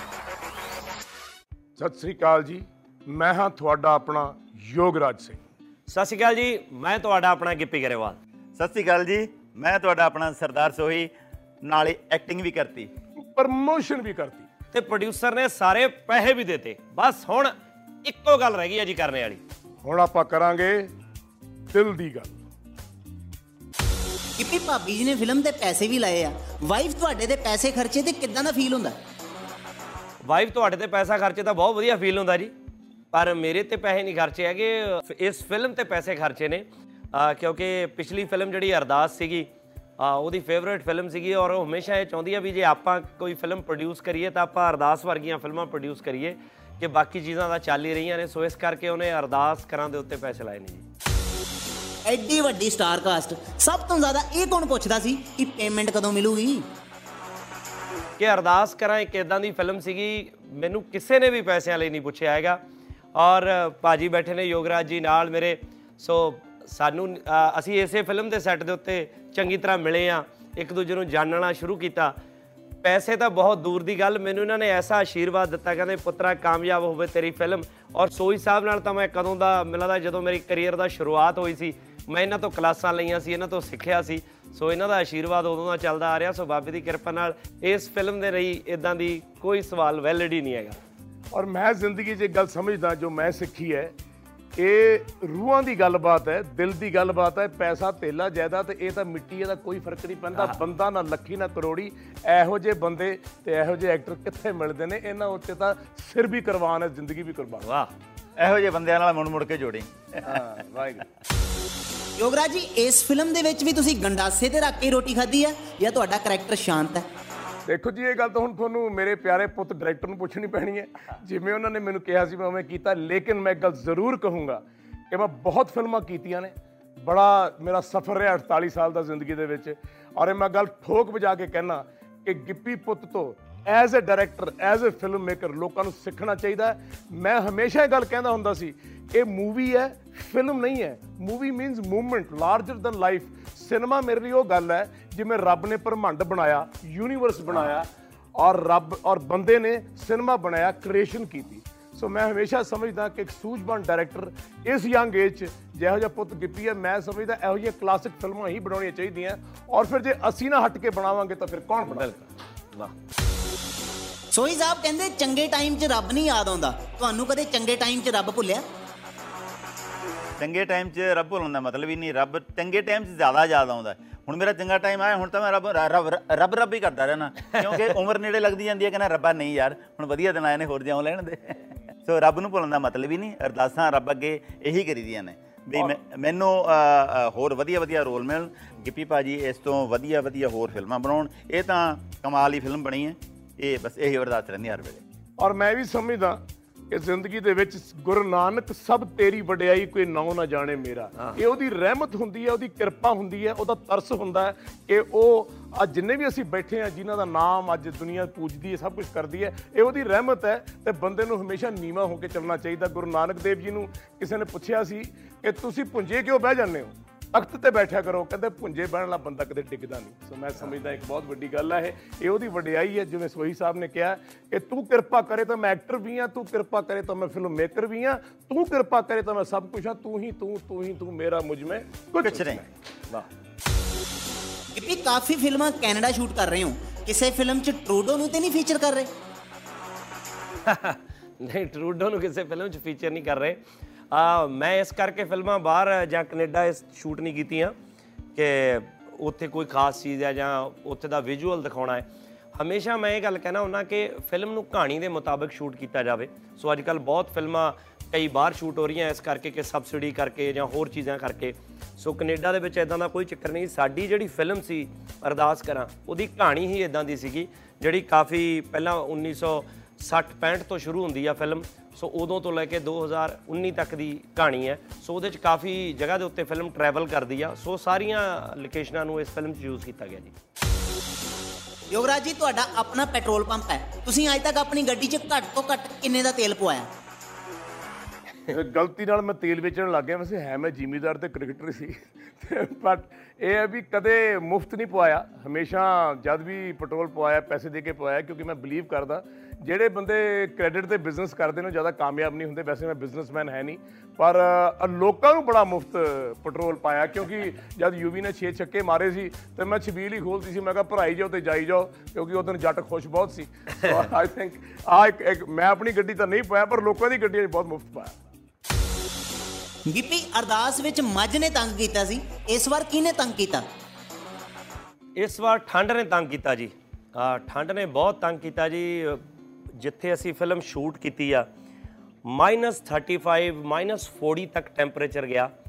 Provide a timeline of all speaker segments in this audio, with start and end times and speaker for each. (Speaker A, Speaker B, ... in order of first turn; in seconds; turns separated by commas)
Speaker A: 1.8-5.4, Speaker B: 5.9-8.2, Speaker C: 8.6-11.1, Speaker C: 11.6-12.9, Speaker A: 13.3-14.5, Speaker B: 14.7-17.5, Speaker B: 18.0-19.4, Speaker A: 19.8-20.9, Speaker A: 21.7-22.4, Speaker D: 24.4-28.9, Speaker B: 30.2-32.5, Speaker B: 33.1-50.9, Speaker D: 52.1-56.7, Speaker B: 58.2-62.6, Speaker B: 63.1-72.2, Speaker B: 72.8-90.8, Speaker A: 91.3-93.9, Speaker A: 94.6-107.7, Speaker B: 107.6-107.9, Speaker C: 108.4-110.3, Speaker A: 110.2-111.0, Speaker D: 112.2-117.0, Speaker A: 117.7-162.1, Speaker B: 161.8-162.9, Speaker D: 164.3-168.6, Speaker C: 170.4-195.0, Speaker B: 177.5-177.9, Speaker A: 195.4-196.4, Speaker A: 196.9-232.7, Speaker C: 232.1-232.6, Speaker D: 234.7-239.1, Speaker B: 240.7-243.6, Speaker B: 244.1-247.8, Speaker B: 248.3-280.3, Speaker D: 281.9-286.9, Speaker A: 288.5-318.2, Speaker D: 319.9-323.6, Speaker B: 325.2-329.2, Speaker B: 329.8-331.5, Speaker B: 332.2-335.5